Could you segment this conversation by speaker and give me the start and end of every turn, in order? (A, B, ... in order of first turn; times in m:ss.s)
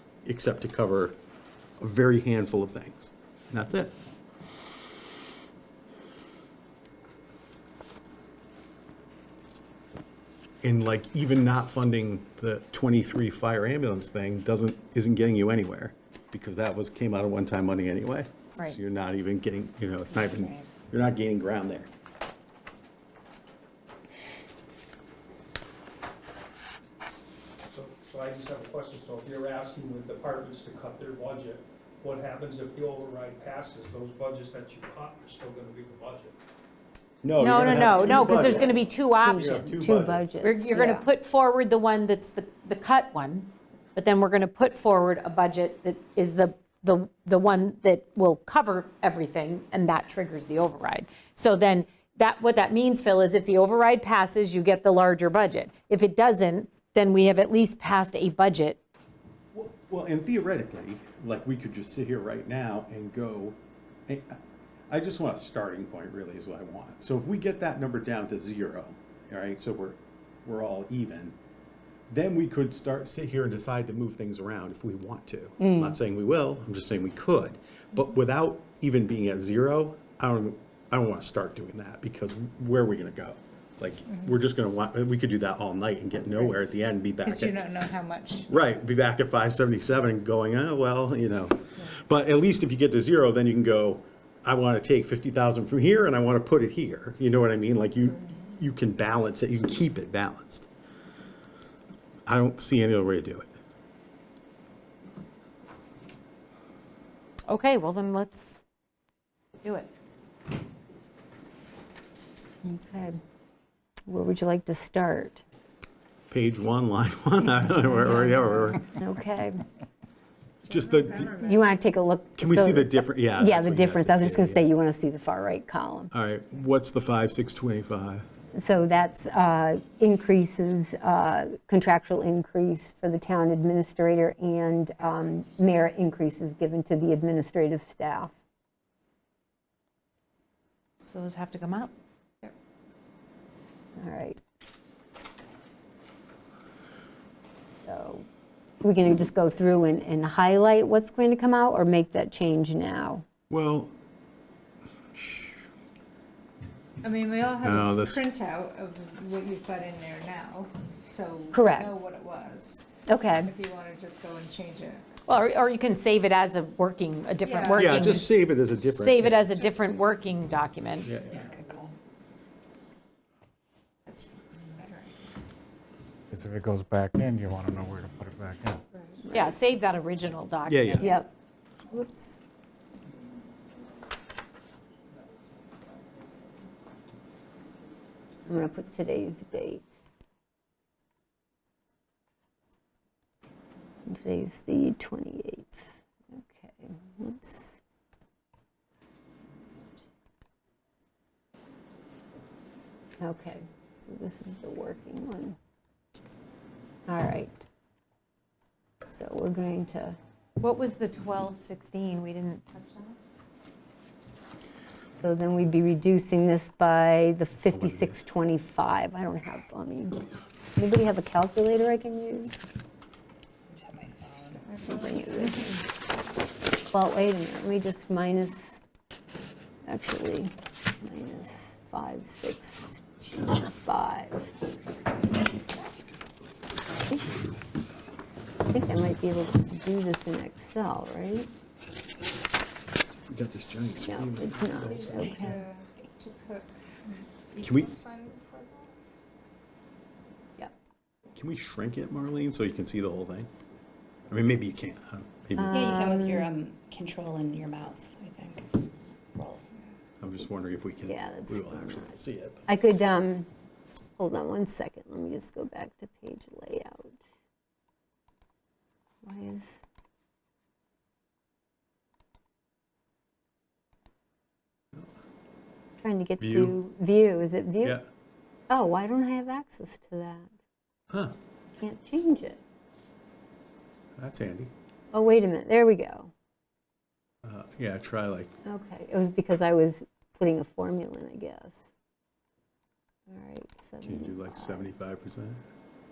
0:00.2-0:01.2 A
0:01.8-0:04.0 A
0:10.6-0:21.9 A
0:20.2-0:20.7 B
0:27.7-0:36.3 C
0:37.2-0:40.4 A
0:37.4-0:39.7 D
0:37.6-0:41.1 E
0:40.4-0:58.8 D
0:59.5-1:04.4 A
1:04.9-1:11.4 A
1:12.1-1:27.6 A
1:15.6-1:16.0 E
1:27.2-1:28.5 F
1:28.5-1:40.7 A
1:42.3-1:43.5 A
1:47.5-1:48.6 D
1:49.6-1:49.9 D
1:52.6-1:53.2 E
1:54.1-1:55.4 E
1:56.3-1:58.9 A
1:58.8-1:59.6 E
2:00.7-2:01.4 A
2:00.7-2:01.6 F
2:01.3-2:06.1 E
2:02.4-2:04.7 A
2:06.1-2:08.2 A
2:08.5-2:18.4 E
2:21.1-2:21.9 D
2:24.0-2:24.4 E
2:27.8-2:28.3 E
2:28.8-2:33.2 E
2:33.5-2:33.9 A
2:35.1-2:35.6 A
2:37.0-2:42.9 F
2:37.6-2:38.2 A
2:41.5-2:42.0 E
2:43.1-2:43.5 E
2:43.4-2:45.1 F
2:45.3-2:51.1 D
2:47.4-2:48.0 F
2:47.8-2:49.5 A
2:51.0-2:51.5 A
2:51.3-2:51.9 B
2:54.1-2:55.1 F
2:56.3-2:58.8 G
2:59.2-2:59.5 E
2:59.3-3:01.2 D
3:00.7-3:01.1 A
3:01.0-3:01.3 E
3:01.9-3:02.4 E
3:08.5-3:09.9 E
3:14.1-3:17.8 E
3:23.2-3:25.6 E
3:27.1-3:27.6 E
3:29.1-3:30.2 E
3:30.6-3:33.2 D
3:35.2-3:40.2 E
3:37.7-3:38.3 A
3:40.8-3:42.6 E
3:43.7-3:44.7 B
3:44.7-3:45.6 F
3:44.8-3:45.8 E
3:46.9-3:48.8 E
3:49.9-3:54.5 E
3:58.7-4:01.5 E
4:03.3-4:05.5 A
4:04.0-4:05.7 E
4:04.9-4:08.9 F
4:07.6-4:07.9 A
4:11.4-4:13.5 A
4:14.3-4:16.0 A
4:15.6-4:16.5 E
4:15.7-4:18.8 B
4:19.4-4:19.6 B
4:20.2-4:22.7 A
4:21.1-4:22.1 E
4:22.7-4:23.5 E
4:24.2-4:27.2 E
4:29.2-4:29.8 E
4:36.0-4:38.0 E
4:36.4-4:36.8 A
4:38.7-4:40.5 E
4:41.1-4:41.4 A
4:41.8-4:42.6 E
4:44.2-4:44.7 A
4:45.1-4:46.3 E
4:47.4-4:48.5 A
4:48.7-4:51.9 E
4:53.3-4:54.9 E
4:54.0-4:55.6 A